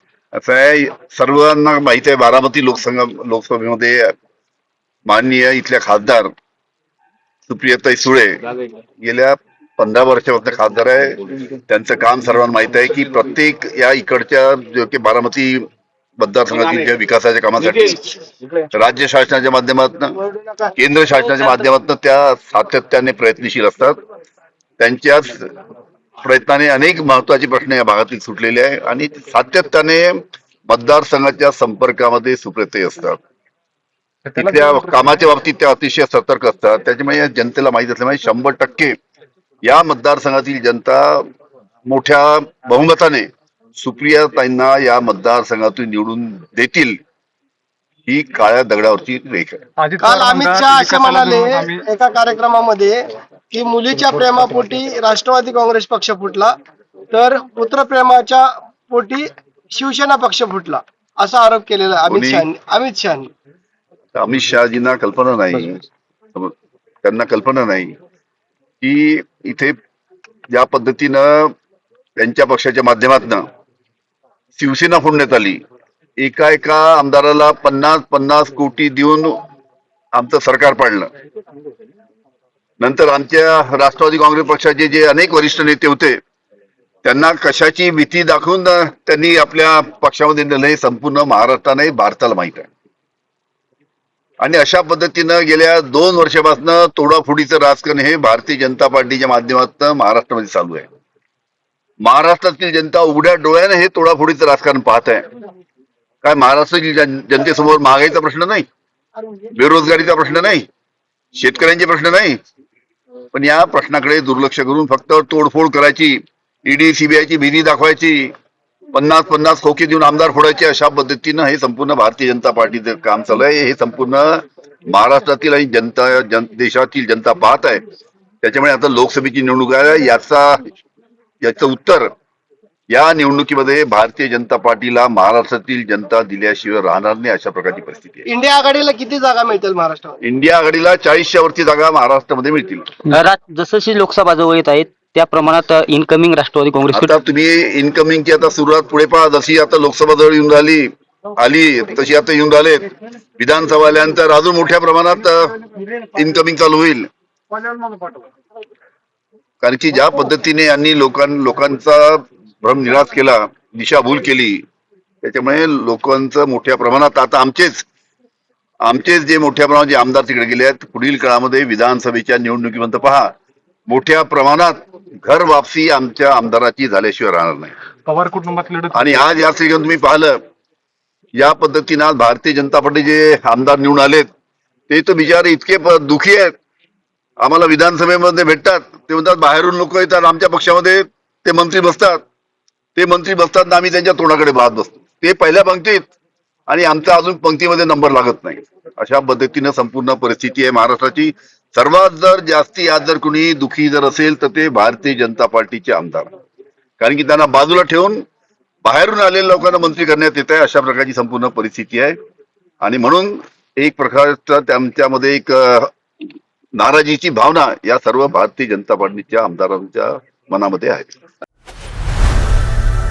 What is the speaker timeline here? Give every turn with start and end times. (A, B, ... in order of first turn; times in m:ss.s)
0:00.3-0:04.1 A
0:05.1-0:06.3 A
0:07.5-0:15.6 A
0:16.2-0:18.1 A
0:18.7-0:20.2 A
0:20.2-0:20.7 B
0:20.8-0:24.0 A
0:24.8-0:25.5 A
0:26.2-0:33.2 A
0:34.4-0:38.9 A
0:39.6-0:41.3 A
0:41.9-0:47.0 A
0:48.1-0:49.6 A
0:49.8-0:51.8 C
0:50.0-0:56.5 B
0:57.1-1:03.3 B
1:02.1-1:02.5 A
1:04.1-1:05.8 A
1:07.0-1:08.0 A
1:08.8-1:09.8 A
1:10.5-1:11.5 A
1:12.2-1:13.5 A
1:14.6-1:15.6 A
1:16.2-1:19.4 A
1:20.1-1:21.1 A
1:22.8-1:26.2 A
1:27.0-1:32.7 A
1:34.4-1:40.9 A
1:42.0-1:45.2 A
1:46.2-1:48.7 A
1:49.5-1:50.7 A
1:51.4-1:52.4 A
1:53.3-1:58.3 A
1:58.9-2:07.8 A
2:08.4-2:10.6 A
2:11.4-2:12.1 A
2:12.9-2:18.3 A
2:18.3-2:20.2 B
2:20.2-2:22.9 A
2:23.1-2:27.2 D
2:26.9-2:32.9 A
2:33.4-2:35.6 A
2:36.1-2:37.1 A
2:39.6-2:44.6 A
2:45.2-2:47.8 A
2:48.8-2:53.3 A
2:53.9-2:57.7 A
2:58.1-2:59.1 C
2:58.9-3:00.4 A
3:01.4-3:04.3 A
3:04.9-3:06.5 A
3:07.4-3:12.2 A
3:13.0-3:16.0 A
3:16.7-3:26.3 A
3:27.0-3:28.2 A
3:28.8-3:32.2 A
3:32.8-3:35.9 A
3:36.8-3:41.1 A